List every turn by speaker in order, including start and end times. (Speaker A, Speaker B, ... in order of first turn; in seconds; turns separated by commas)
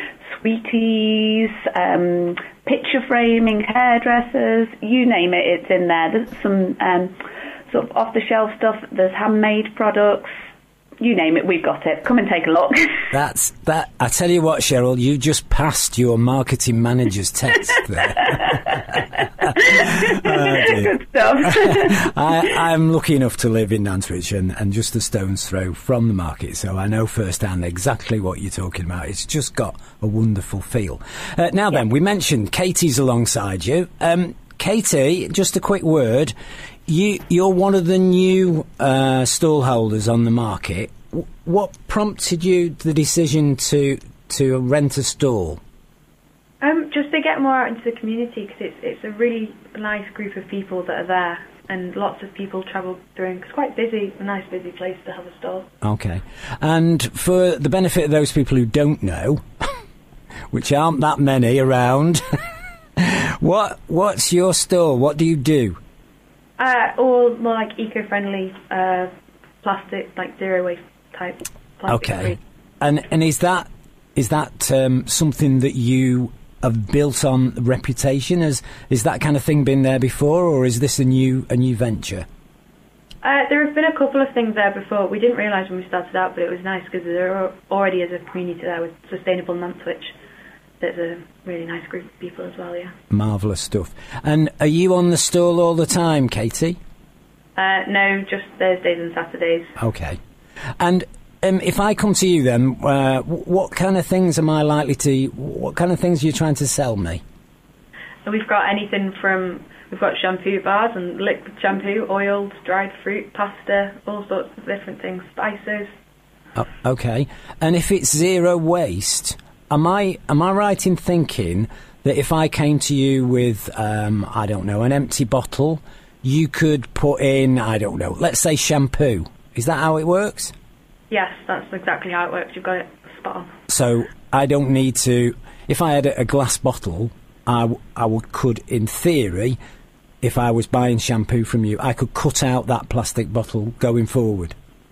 Speaker A: 0.3-7.2, Speaker A: 7.7-10.3, Speaker A: 11.0-13.0, Speaker B: 13.1-19.0, Speaker A: 19.4-22.1, Speaker B: 19.7-36.3, Speaker B: 36.9-45.6, Speaker C: 46.6-55.7, Speaker B: 55.8-59.7, Speaker B: 60.5-62.2, Speaker B: 63.0-65.8, Speaker C: 66.6-69.1, Speaker C: 69.6-72.4, Speaker B: 71.9-82.3, Speaker C: 83.2-90.2, Speaker C: 90.8-92.9, Speaker B: 93.1-96.8, Speaker C: 97.6-99.7, Speaker B: 99.8-100.2, Speaker B: 100.8-107.2, Speaker C: 108.2-115.9, Speaker B: 116.5-130.5, Speaker C: 131.1-133.5, Speaker B: 133.7-139.6, Speaker B: 140.2-144.6